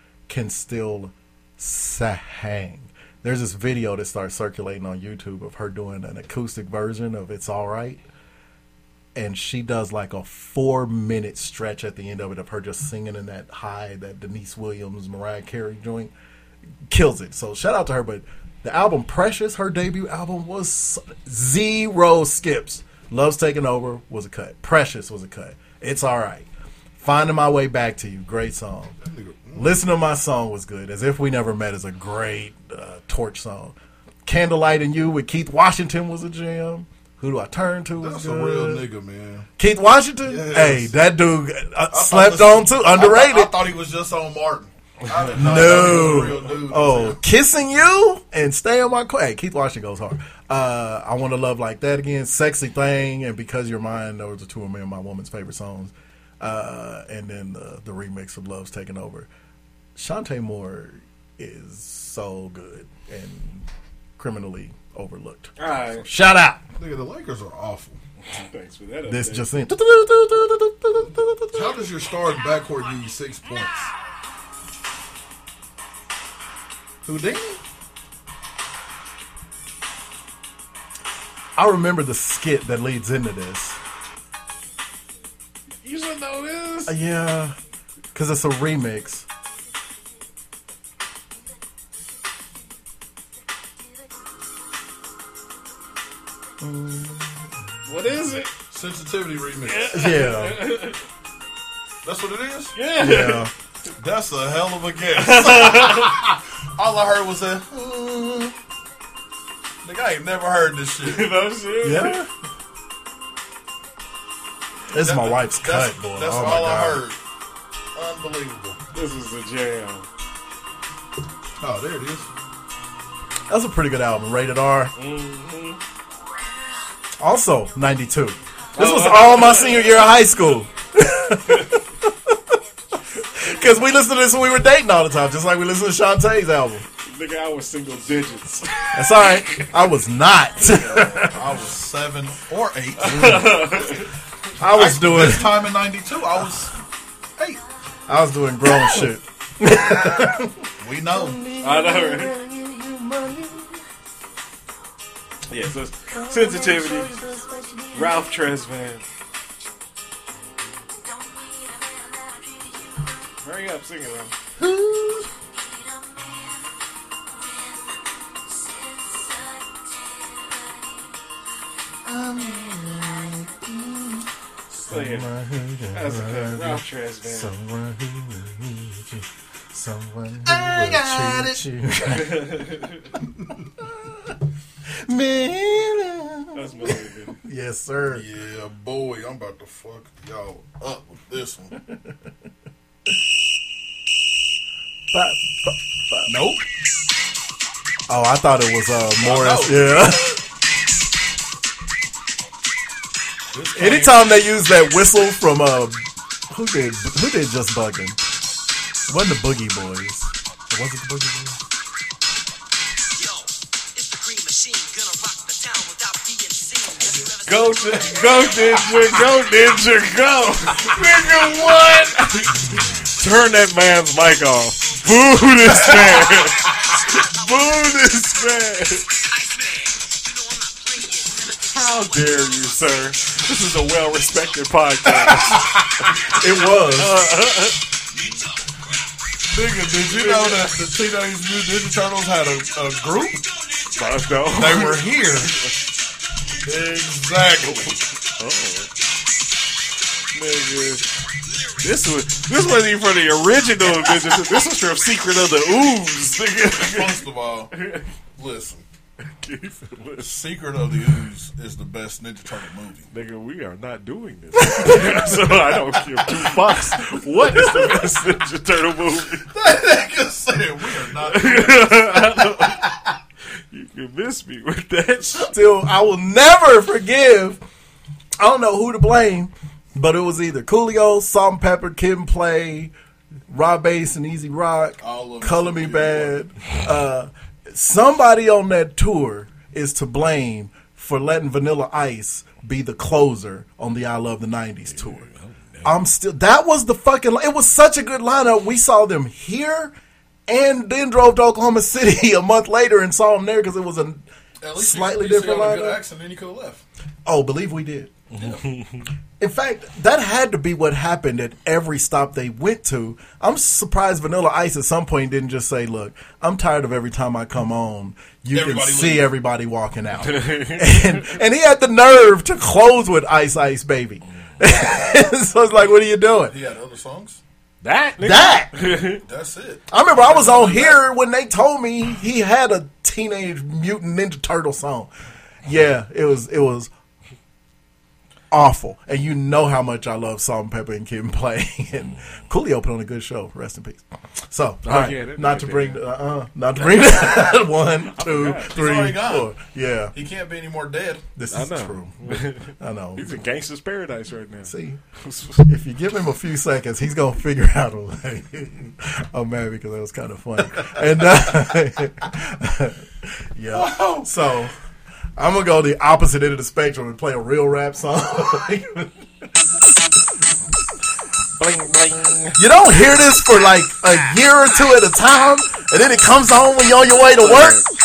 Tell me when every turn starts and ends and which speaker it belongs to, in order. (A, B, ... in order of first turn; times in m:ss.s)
0:00.3-0:08.0 A
0:09.2-0:16.1 A
0:16.9-0:26.5 A
0:27.0-0:29.0 A
0:29.0-0:29.8 B
0:29.6-0:38.9 A
0:38.0-0:39.5 B
0:39.6-0:43.6 A
0:40.2-0:40.9 B
0:41.9-0:47.2 B
0:45.2-0:46.2 C
0:45.3-0:59.3 A
1:00.0-1:03.7 A
1:04.2-1:06.6 A
1:05.6-1:06.1 C
1:06.8-1:08.0 B
1:08.3-1:09.5 C
1:09.1-1:11.8 A
1:11.5-1:13.9 B
1:17.0-1:17.6 B
1:21.6-1:23.8 A
1:25.8-1:27.0 C
1:26.9-1:27.6 A
1:28.1-1:29.3 A
1:36.6-1:37.6 A
1:37.9-1:38.5 C
1:38.7-1:40.0 B
1:39.7-1:41.0 C
1:39.9-1:40.7 A
1:42.0-1:42.8 B
1:42.8-1:43.5 C
1:43.0-1:43.5 A
1:44.0-1:48.6 B
1:45.2-1:46.2 C
1:49.8-1:51.4 B
1:51.0-1:52.2 C
1:51.8-1:52.3 A
1:54.9-1:57.1 A
1:55.0-1:57.2 B
1:58.0-1:58.8 B
1:58.9-2:00.1 C
2:01.6-2:02.3 B
2:03.5-2:04.9 A
2:05.0-2:05.8 C
2:07.2-2:12.5 A
2:08.8-2:10.0 C
2:11.5-2:11.8 C
2:13.4-2:16.9 A
2:17.0-2:19.7 C
2:18.9-2:21.4 A
2:20.6-2:23.6 B
2:23.0-2:24.1 C
2:23.1-2:23.5 A
2:24.6-2:25.7 A
2:24.7-2:26.7 B
2:27.4-2:27.6 B
2:28.1-2:33.8 A
2:30.8-2:31.4 B
2:31.6-2:32.4 C
2:35.5-2:37.2 C
2:36.1-2:38.3 A
2:37.9-2:39.0 C
2:43.4-2:44.3 C
2:44.6-2:45.3 A
2:52.1-2:54.2 A
2:54.7-2:55.3 C
2:54.8-3:02.7 A
2:55.9-2:57.5 C
3:00.5-3:01.6 B
3:02.1-3:03.1 C
3:03.8-3:04.3 A
3:04.9-3:08.3 A
3:06.5-3:07.4 C
3:08.1-3:11.8 B
3:11.9-3:12.1 A
3:15.1-3:16.3 A
3:16.3-3:16.6 B
3:18.1-3:20.4 A
3:19.2-3:20.2 B
3:23.5-3:24.3 B
3:23.7-3:28.2 A
3:29.1-3:31.6 A
3:37.4-3:42.6 C
3:43.2-3:49.1 C
3:51.6-3:55.6 C
3:56.3-3:57.2 A
3:56.3-3:57.8 C
3:59.5-4:03.5 B
4:00.1-4:00.7 C
4:04.0-4:05.7 C
4:04.5-4:05.5 B
4:06.6-4:08.0 B
4:08.4-4:08.9 C
4:10.3-4:11.0 C
4:11.8-4:18.1 C
4:16.8-4:17.8 B
4:18.4-4:18.8 B
4:19.3-4:20.3 C
4:20.2-4:23.1 B
4:23.1-4:29.5 C
4:24.6-4:25.4 A
4:26.4-4:26.7 A
4:27.5-4:28.0 A
4:29.5-4:32.9 B
4:31.3-4:32.8 C
4:33.7-4:35.5 C
4:35.4-4:37.6 A
4:38.4-4:42.9 A
4:43.5-4:55.3 A
4:45.0-4:46.4 B
4:54.9-4:56.0 C
4:55.8-4:59.9 A
5:00.5-5:04.2 A
5:04.6-5:06.8 B
5:04.8-5:06.0 A
5:07.2-5:08.2 A
5:08.3-5:09.1 C
5:08.4-5:08.6 B
5:09.4-5:26.6 A
5:18.5-5:19.3 B
5:20.3-5:21.3 C
5:26.5-5:27.4 B
5:27.8-5:29.2 C
5:28.2-5:28.7 A
5:29.2-5:31.0 B
5:29.9-5:35.1 A
5:35.6-5:36.9 A
5:38.5-5:50.2 A
5:44.8-5:46.0 C
5:48.1-5:48.8 C
5:48.7-5:49.5 B
5:50.1-5:51.2 B
5:51.4-5:53.3 A
5:51.5-5:55.7 C
5:54.6-5:55.0 A
5:55.6-6:04.7 A
6:03.7-6:04.3 B
6:05.4-6:09.1 A
6:11.6-6:12.6 C
6:12.6-6:17.9 A
6:17.4-6:17.9 C